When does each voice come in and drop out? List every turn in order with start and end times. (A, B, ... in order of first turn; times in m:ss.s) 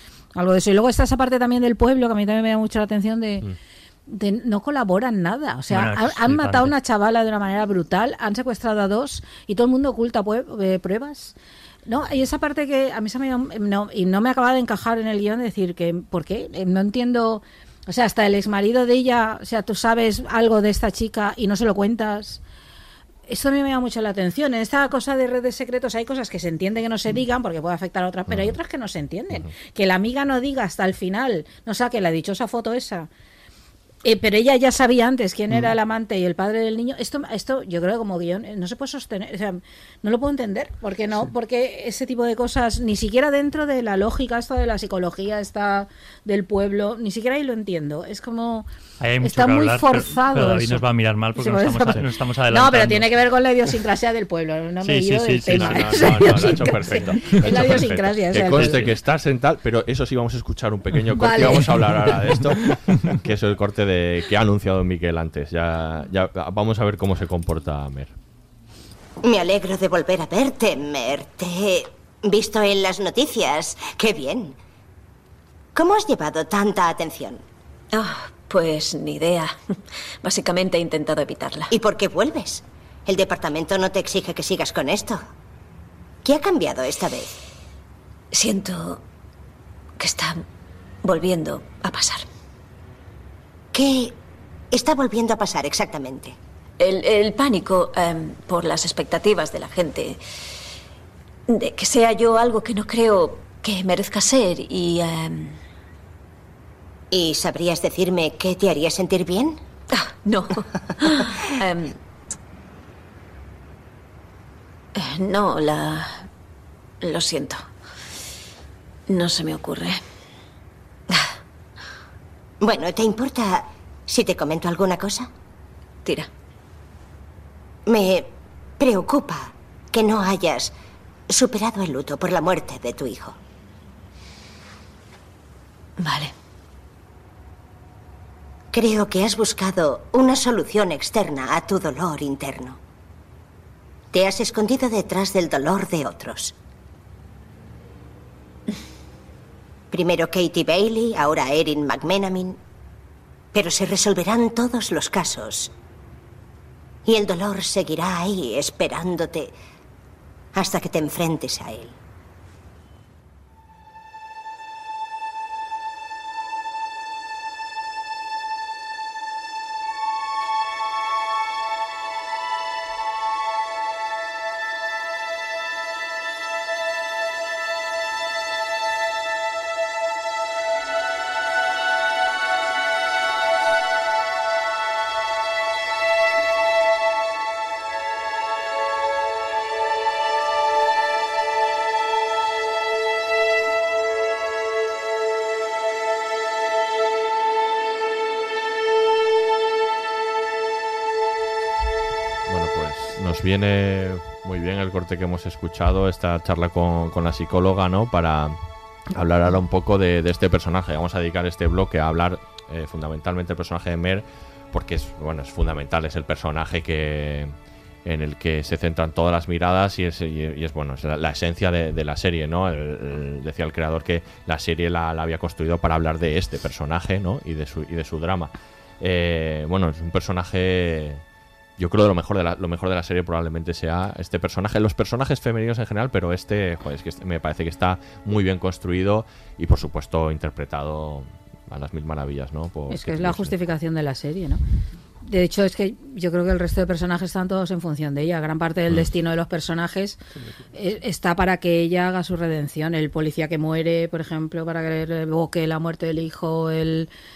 0:00.3-0:03.5 A
0:04.1-0:11.3 A
0:05.7-0:06.7 B
0:11.8-0:22.4 A
0:23.3-0:33.1 A
0:28.3-0:28.6 C
0:34.0-0:48.7 A
0:49.0-0:53.1 B
0:49.2-0:50.8 A
0:51.4-0:58.9 A
0:54.8-0:57.8 B
0:55.5-1:08.1 C
0:58.5-0:58.9 B
1:01.1-1:01.7 A
1:02.9-1:03.2 B
1:09.2-1:14.6 D
1:15.7-1:17.4 D
1:17.9-1:19.5 E
1:20.2-1:21.7 E
1:21.7-1:25.2 D
1:26.2-1:27.3 D
1:28.3-1:29.0 E
1:30.0-1:30.4 E
1:31.0-1:32.2 E
1:33.7-1:34.2 D
1:34.7-1:36.4 D
1:36.8-1:40.2 E
1:41.5-1:45.6 E
1:47.1-1:49.6 D
1:49.9-1:52.0 E
1:54.9-1:56.2 E
1:57.0-1:57.6 E
1:59.1-2:00.0 E
2:02.6-2:05.3 D
2:06.0-2:06.3 E
2:07.9-2:10.7 D
2:11.3-2:13.3 D
2:16.0-2:16.3 E
2:18.7-2:22.8 D
2:24.1-2:26.5 D
2:29.9-2:32.6 D
2:33.5-2:35.7 D
2:37.0-2:39.5 D
2:40.5-2:42.0 D
3:22.5-3:28.6 C
3:29.1-3:37.5 C
3:38.0-3:51.2 C
3:51.8-4:03.5 C
4:02.9-4:04.6 A
4:05.2-4:10.2 A
4:10.7-4:17.1 A